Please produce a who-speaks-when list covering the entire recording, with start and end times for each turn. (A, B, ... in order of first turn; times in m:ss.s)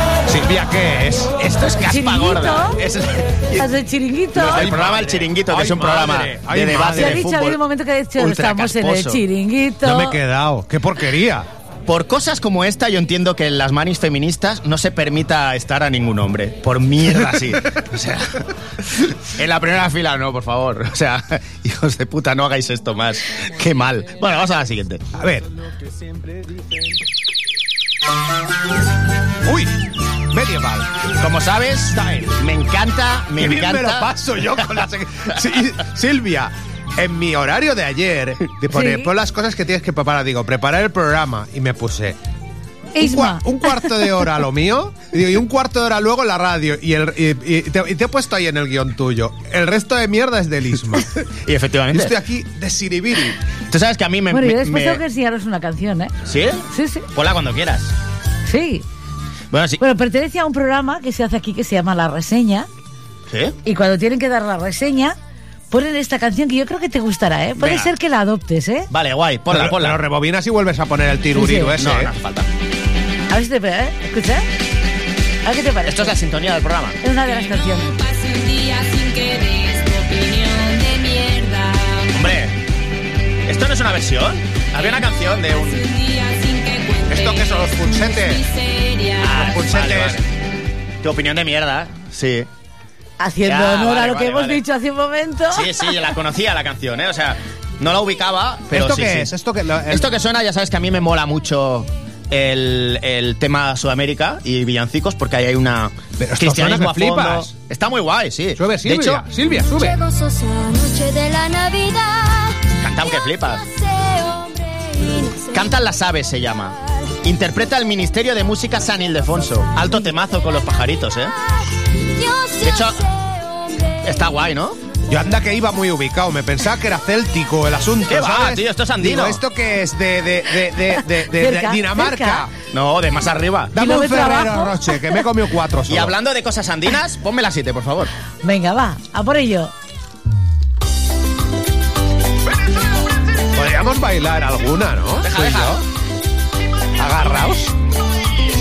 0:00.3-0:01.3 A
0:01.4-0:03.7 B
0:01.8-0:02.8 C
0:03.6-0:04.7 C
0:04.4-0:07.6 B
0:04.4-0:07.3 A
0:06.8-0:10.2 C
0:08.2-0:09.2 B
0:09.8-0:11.5 A
0:11.9-0:18.5 B
0:19.0-0:25.0 B
0:25.2-0:25.5 A
0:29.4-0:29.8 A
0:30.3-0:30.9 A
0:31.2-0:34.6 B
0:33.4-0:42.2 A
0:38.7-0:39.1 C
0:43.0-0:44.2 C
0:43.0-0:51.2 A
0:51.5-0:52.1 B
0:51.9-0:53.4 A
0:53.7-0:55.0 B
0:54.3-0:56.1 C
0:56.3-0:57.9 B
0:56.7-0:57.1 C
0:58.5-0:58.8 C
0:59.5-0:59.8 B
0:59.8-1:02.7 C
1:03.3-1:03.6 B
1:03.6-1:05.2 C
1:05.7-1:08.9 C
1:07.6-1:07.9 B
1:08.9-1:10.0 B
1:09.5-1:12.1 A
1:11.3-1:11.7 C
1:11.8-1:12.5 B
1:13.3-1:14.4 C
1:15.4-1:16.2 C
1:15.9-1:17.0 B
1:17.0-1:17.9 C
1:17.3-1:22.1 D
1:22.1-1:22.6 B
1:23.5-1:25.8 B
1:25.6-1:29.4 D
1:27.1-1:28.4 A
1:29.2-1:30.3 B
1:29.4-1:30.2 A
1:31.0-1:32.5 B
1:33.2-1:36.1 C
1:33.4-1:34.6 B
1:35.5-1:39.3 B
1:38.7-1:40.1 A
1:39.9-1:49.2 B
1:46.2-1:47.5 A
1:48.6-1:50.0 A
1:49.6-1:55.7 E
1:52.8-1:53.6 B
1:55.5-2:01.3 B
2:02.1-2:04.0 E
2:02.6-2:03.0 B
2:04.0-2:04.8 B
2:05.1-2:12.5 A
2:08.1-2:09.4 B
2:11.3-2:12.5 C
2:12.7-2:13.8 B
2:13.7-2:16.2 A
2:13.8-2:15.2 C
2:15.9-2:18.1 B
2:18.4-2:19.7 C
2:23.5-2:25.8 A
2:25.2-2:25.8 B
2:27.0-2:27.7 A